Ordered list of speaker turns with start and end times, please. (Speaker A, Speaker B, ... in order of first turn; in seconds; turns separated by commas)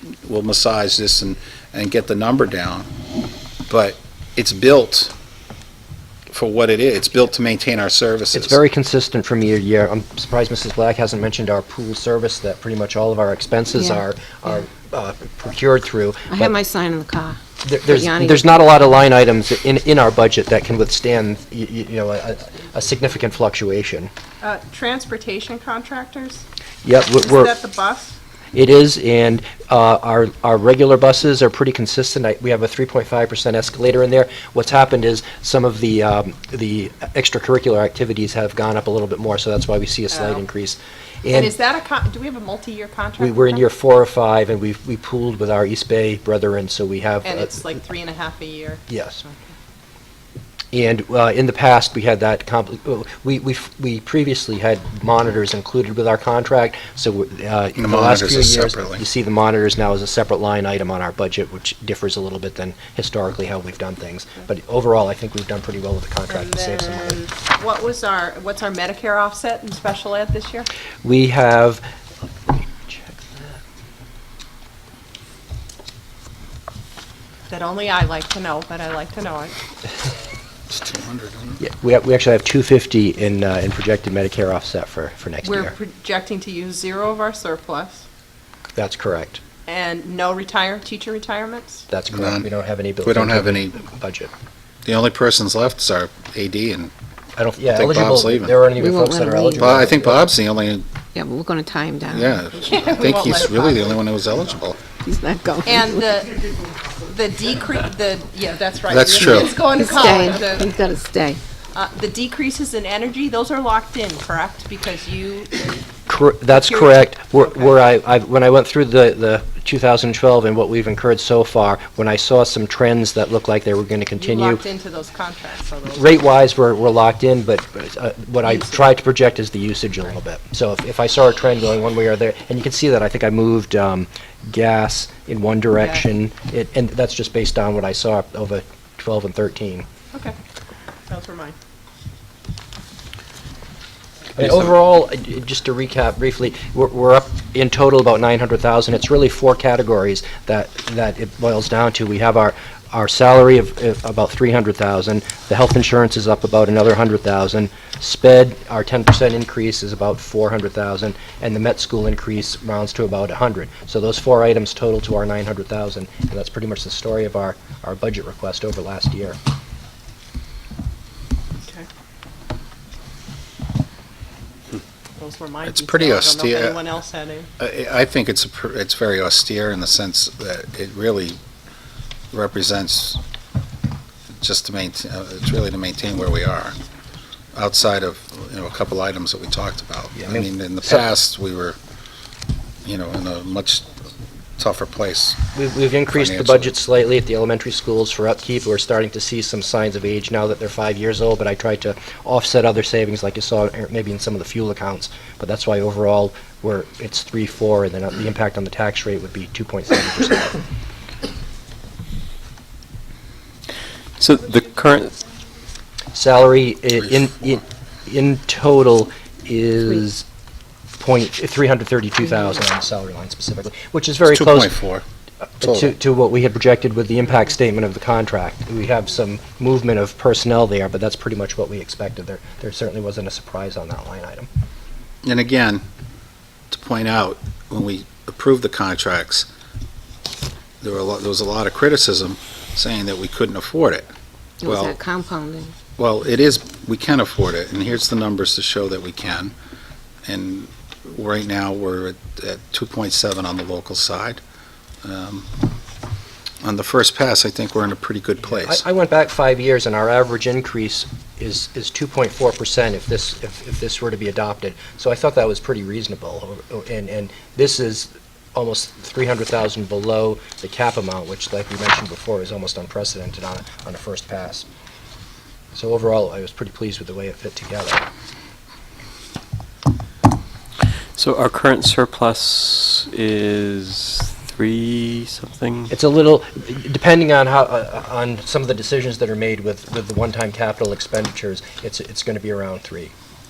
Speaker A: 0.2-2.9, Speaker A: 3.7-5.1, Speaker A: 6.3-8.6, Speaker B: 8.3-16.5, Speaker C: 13.8-14.0, Speaker C: 16.3-18.6, Speaker B: 17.6-24.1, Speaker D: 24.4-26.4, Speaker B: 26.8-27.5, Speaker D: 27.1-28.1, Speaker B: 28.5-41.5, Speaker D: 40.1-40.4, Speaker D: 41.3-43.6, Speaker B: 43.2-47.6, Speaker D: 47.2-49.5, Speaker B: 48.9-49.2, Speaker B: 50.7-67.2, Speaker A: 57.8-59.0, Speaker D: 66.3-70.7, Speaker B: 71.0-71.8, Speaker B: 72.9-73.4, Speaker D: 77.5-79.5, Speaker A: 80.7-81.6, Speaker B: 81.6-85.7, Speaker D: 85.4-88.0, Speaker B: 88.7-89.4, Speaker D: 89.7-91.8, Speaker B: 91.9-94.3, Speaker A: 92.1-92.5, Speaker A: 93.0-93.8, Speaker A: 94.8-96.9, Speaker B: 97.4-100.3, Speaker A: 97.7-98.6, Speaker C: 98.8-99.9, Speaker A: 99.6-100.9, Speaker C: 101.1-102.3, Speaker A: 102.1-104.8, Speaker D: 102.5-103.9, Speaker C: 105.0-106.0, Speaker D: 105.6-110.7, Speaker A: 108.9-109.5, Speaker C: 109.8-111.4, Speaker D: 111.7-115.6, Speaker B: 116.1-124.6, Speaker D: 116.5-117.8, Speaker D: 124.2-126.2, Speaker B: 125.9-139.8, Speaker D: 128.4-128.9, Speaker D: 135.8-136.0, Speaker D: 141.1-141.5, Speaker B: 144.3-169.4, Speaker D: 175.2-177.5, Speaker A: 175.6-176.9, Speaker A: 177.6-181.4, Speaker A: 182.3-183.2, Speaker A: 184.4-186.8, Speaker A: 187.5-191.8, Speaker B: 190.2-191.0, Speaker A: 192.8-193.9, Speaker A: 194.6-195.4, Speaker B: 195.5-210.6, Speaker A: 196.1-196.7, Speaker E: 214.2-215.2, Speaker B: 216.1-220.2, Speaker B: 221.0-224.7, Speaker A: 224.2-225.0, Speaker B: 225.6-234.5, Speaker A: 225.6-225.9, Speaker A: 235.2-235.8, Speaker A: 236.7-239.5, Speaker A: 240.8-244.1, Speaker C: 244.6-245.7, Speaker A: 244.6-245.0, Speaker A: 246.0-249.5, Speaker A: 250.2-254.4, Speaker A: 255.0-255.5, Speaker A: 256.6-258.8, Speaker B: 258.6-274.7, Speaker B: 275.7-278.0, Speaker E: 281.1-285.9, Speaker B: 285.9-293.1